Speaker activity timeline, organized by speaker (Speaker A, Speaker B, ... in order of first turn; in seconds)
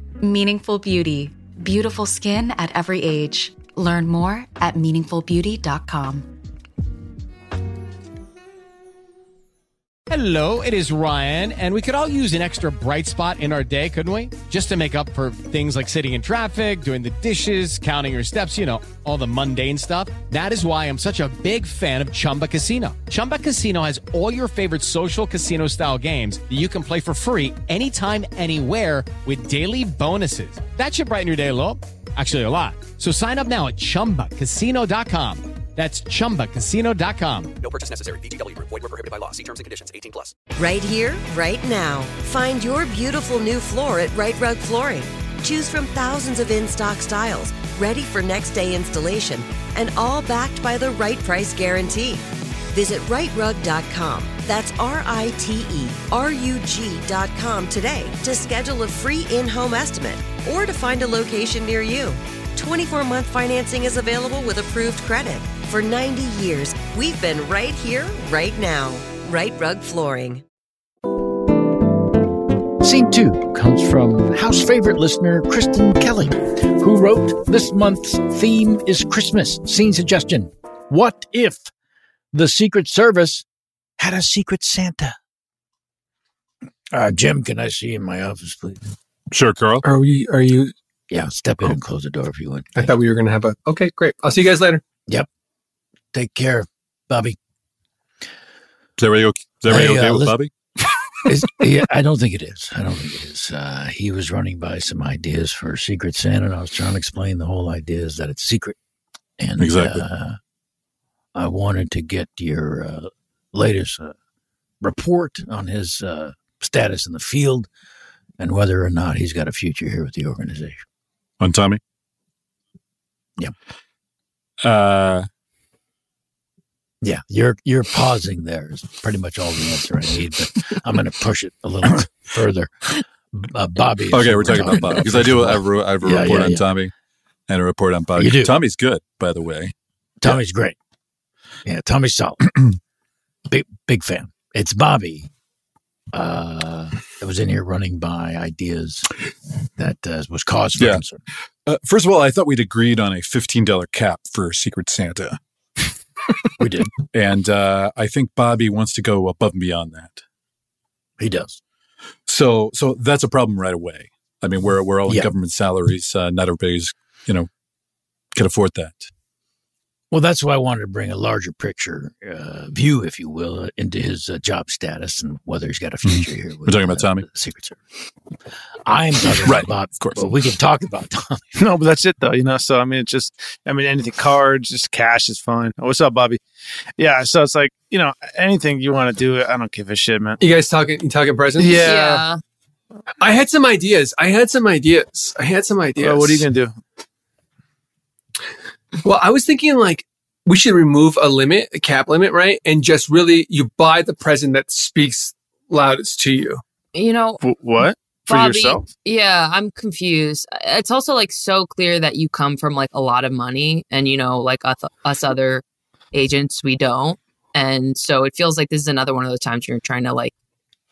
Speaker A: 0.2-6.2
Speaker B: 10.1-37.5
Speaker C: 37.6-40.4
Speaker D: 40.5-70.4
Speaker E: 72.8-81.7, 82.3-83.4, 84.0-85.2, 86.9-88.8, 91.1-92.9, 96.1-97.4, 99.7-100.4, 101.2-108.8, 109.4-110.4, 111.3-114.1, 114.8-117.7, 118.4-120.8, 127.0-132.7, 133.3-136.7, 138.2-138.5, 140.2-140.8, 141.7-142.5, 143.5-145.3, 146.1-149.1, 149.8-151.2, 156.6-156.9, 161.2-161.6, 170.1-177.8, 178.8-181.4
Speaker F: 89.3-89.8, 99.0-100.5, 109.6-110.0, 121.4-121.8, 124.6-125.3, 134.1-136.9, 137.5-139.7, 151.7-155.4, 157.1-160.2, 162.3-167.5, 168.3-169.1, 176.0-177.2, 179.4-180.2
Speaker G: 89.8-90.7, 92.7-94.8, 190.4-191.8, 193.2-196.5, 199.0-206.6
Speaker H: 181.6-186.4, 187.0-190.4, 191.6-192.2, 196.0-196.8, 207.4-208.8
Speaker I: 191.8-192.4, 206.9-207.4, 208.3-220.3